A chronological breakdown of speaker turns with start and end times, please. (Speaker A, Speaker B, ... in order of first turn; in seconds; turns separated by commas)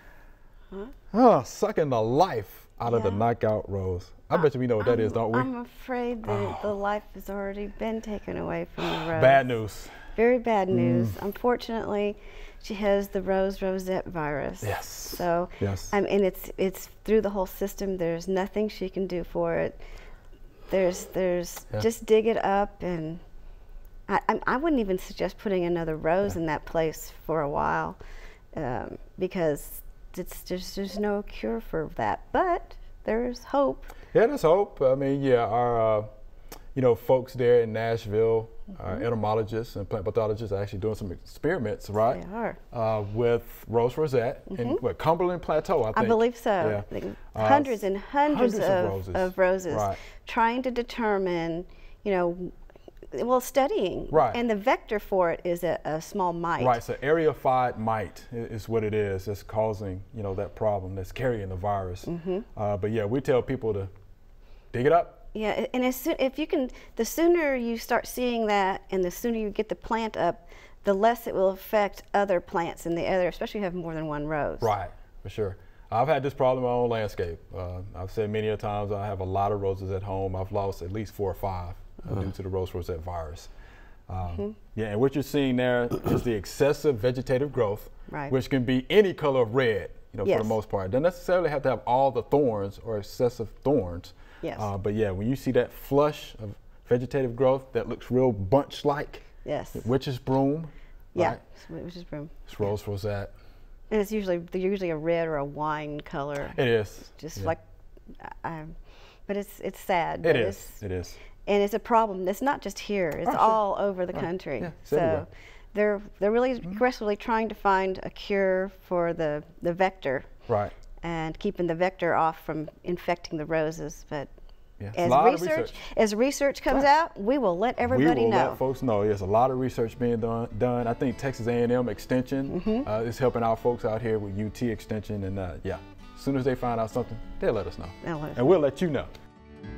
Speaker A: 1.1-5.5, Speaker B: 2.9-3.2, Speaker B: 4.3-9.6, Speaker A: 6.3-6.7, Speaker A: 8.8-10.0, Speaker B: 10.2-19.8, Speaker A: 10.7-11.2, Speaker A: 14.6-15.9, Speaker B: 20.7-23.2, Speaker B: 24.1-28.0, Speaker B: 28.5-33.9, Speaker A: 34.1-36.1, Speaker A: 36.7-42.2, Speaker B: 42.1-42.6, Speaker A: 42.7-50.0, Speaker B: 44.5-44.8, Speaker B: 45.9-52.5, Speaker B: 53.1-56.8, Speaker A: 54.1-54.4, Speaker A: 56.6-63.9, Speaker B: 62.1-62.5, Speaker A: 64.7-65.2, Speaker B: 65.3-74.7, Speaker A: 74.6-83.5, Speaker A: 84.1-101.4, Speaker B: 84.3-84.6, Speaker B: 88.1-88.3, Speaker B: 90.2-90.6, Speaker B: 94.4-94.7, Speaker B: 99.5-99.9, Speaker B: 101.2-102.5, Speaker A: 102.5-103.3, Speaker B: 103.9-107.6, Speaker A: 106.5-107.5, Speaker B: 108.2-108.8, Speaker B: 109.3-110.8, Speaker A: 110.2-111.2, Speaker B: 111.5-120.3, Speaker A: 113.3-113.6, Speaker A: 114.1-115.2, Speaker A: 120.5-120.7, Speaker B: 121.0-124.3, Speaker A: 124.8-125.8, Speaker B: 125.0-128.6, Speaker A: 127.8-139.1, Speaker B: 132.5-132.8, Speaker B: 138.0-138.6